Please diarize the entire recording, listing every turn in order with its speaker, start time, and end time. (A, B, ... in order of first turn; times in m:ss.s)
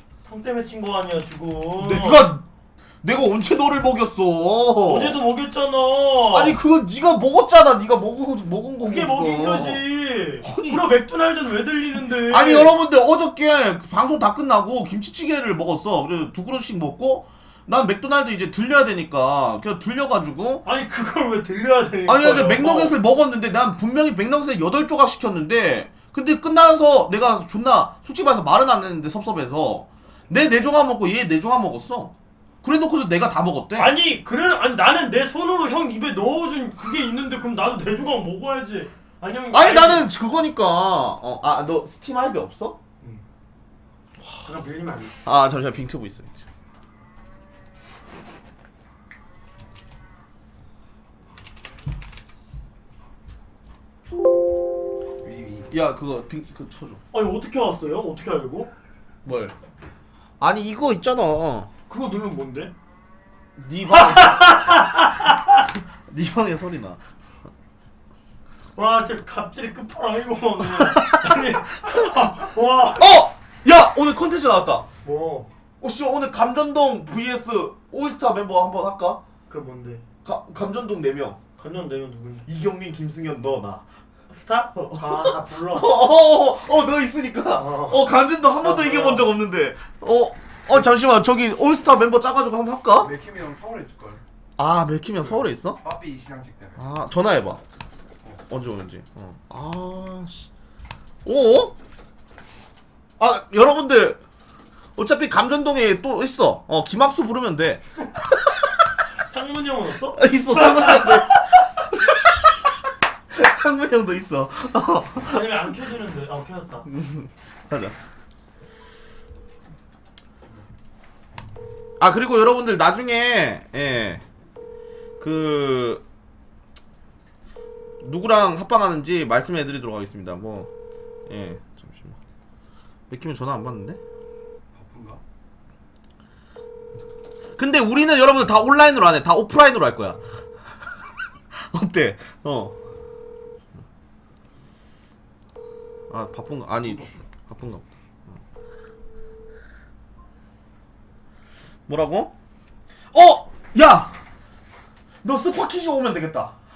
0:00.2-0:02.3 A
0:01.8-0:02.4 B
0:03.0-0:05.2 B
0:04.8-0:06.6 A
0:06.3-0:09.8 B
0:08.8-0:12.8 A
0:10.4-0:10.9 B
0:12.0-0:20.6 B
0:20.6-0:23.0 A
0:22.0-0:33.9 B
0:33.8-0:40.1 A
0:39.5-0:42.8 B
0:44.4-0:45.2 A
0:45.2-0:46.4 B
0:55.2-0:55.6 C
0:55.7-0:57.0 B
0:57.1-0:58.7 A
0:59.2-0:59.5 B
1:00.4-1:01.7 B
1:01.9-1:02.7 A
1:03.6-1:04.6 B
1:03.9-1:05.6 A
1:05.8-1:07.0 B
1:08.8-1:13.2 A
1:13.0-1:14.9 B
1:15.0-1:15.5 A
1:15.8-1:19.2 B
1:19.5-1:20.0 A
1:20.2-1:21.4 B
1:21.6-1:22.5 A
1:22.5-1:23.8 B
1:24.3-1:26.1 A
1:24.8-1:33.1 B
1:27.6-1:28.1 A
1:28.6-1:29.3 A
1:33.0-1:34.2 C
1:34.6-1:35.8 B
1:35.8-1:36.8 C
1:36.8-1:37.6 B
1:38.5-1:40.5 B
1:41.2-1:41.7 B
1:43.2-1:44.2 B
1:45.0-1:47.8 B
1:49.2-1:51.6 A
1:50.1-1:52.5 B
1:53.3-1:55.5 B
1:55.2-1:56.9 A
1:56.9-1:58.0 B
2:02.0-2:04.2 B
2:05.2-2:06.0 B
2:08.0-2:10.7 B
2:11.3-2:12.2 B
2:13.1-2:14.0 B
2:14.7-2:15.2 C
2:17.6-2:20.2 B
2:21.5-2:22.8 B
2:26.1-2:28.4 B
2:31.9-2:32.3 B
2:33.1-2:34.1 B
2:35.2-2:36.5 B